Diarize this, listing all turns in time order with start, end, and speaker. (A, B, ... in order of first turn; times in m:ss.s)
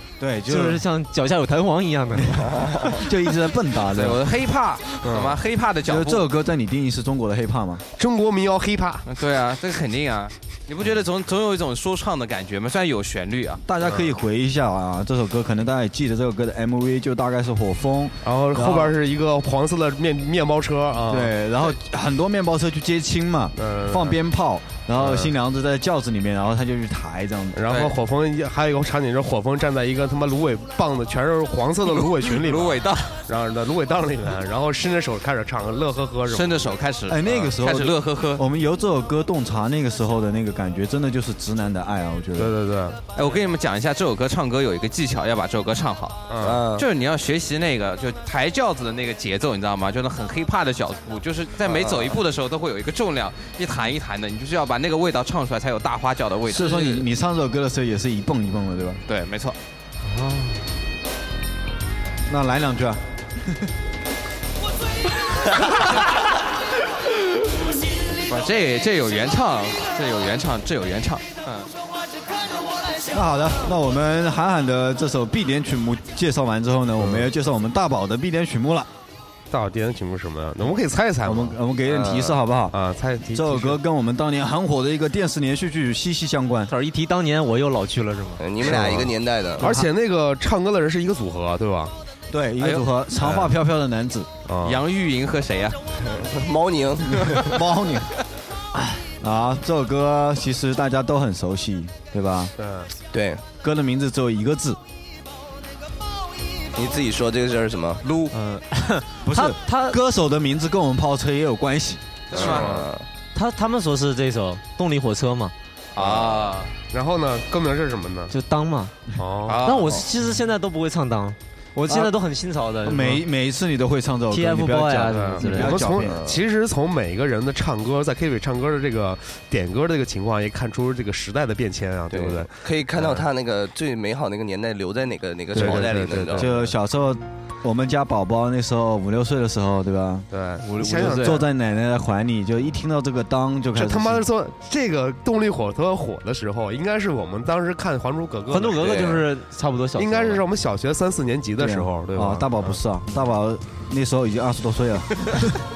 0:00.2-0:00.8 A
0:00.5-0:03.0 B
0:02.3-0:04.2 A
0:03.9-0:06.2 C
0:05.0-0:05.4 D
0:05.9-0:07.8 A
0:08.0-0:09.0 D
0:09.0-0:13.6 C
0:13.7-0:19.0 A
0:18.2-0:21.4 D
0:21.1-0:27.6 A
0:23.6-0:24.2 D
0:25.0-0:25.3 D
0:27.6-0:36.8 D
0:27.7-0:28.0 C
0:32.3-0:33.2 C
0:36.3-0:38.4 C
0:37.1-0:42.6 A
0:42.4-0:43.0 D
0:43.2-0:46.2 C
0:46.3-0:46.6 D
0:46.4-0:46.9 E
0:46.7-0:57.1 C
0:51.6-0:52.2 E
0:56.5-0:59.0 A
0:59.1-0:59.6 C
1:00.0-1:00.6 B
1:02.3-1:03.7 A
1:08.2-1:11.7 C
1:13.1-1:18.9 A
1:17.0-1:17.3 D
1:19.5-1:21.6 D
1:21.2-1:22.8 A
1:21.9-1:22.4 E
1:22.7-1:23.8 D
1:23.3-1:26.7 A
1:26.7-1:28.4 B
1:28.4-1:29.7 E
1:28.6-1:31.9 D
1:28.7-1:29.1 A
1:29.6-1:29.9 A
1:32.3-1:34.3 A
1:32.6-1:32.9 C
1:34.5-1:34.8 D
1:34.6-1:35.8 C
1:36.0-1:37.6 E
1:37.1-1:38.1 A
1:39.2-1:42.5 A
1:42.6-1:42.9 D
1:43.1-1:43.4 E
1:43.6-1:44.8 A
1:46.8-1:48.0 E
1:48.0-1:48.3 C
1:48.3-1:50.0 B
1:49.2-1:52.2 A
1:52.3-1:52.7 C
1:52.3-1:53.1 E
1:52.4-1:52.9 D
1:53.3-1:55.5 B
1:56.0-1:56.7 C
1:56.0-1:56.4 E
1:56.9-1:58.3 D
1:58.3-1:59.0 B
1:59.2-1:59.6 D
1:59.5-2:00.0 C
1:59.6-2:03.2 B
2:01.9-2:02.1 A
2:02.8-2:06.2 A
2:04.3-2:05.8 B
2:05.1-2:13.2 D
2:06.1-2:06.4 E
2:12.1-2:16.5 E
2:15.5-2:16.7 D
2:15.5-2:20.3 A
2:20.3-2:21.5 D
2:20.6-2:21.4 B
2:20.8-2:24.3 A
2:23.8-2:29.1 D
2:28.5-2:30.4 B
2:28.8-2:29.2 E
2:30.0-2:32.8 D
2:31.6-2:35.6 A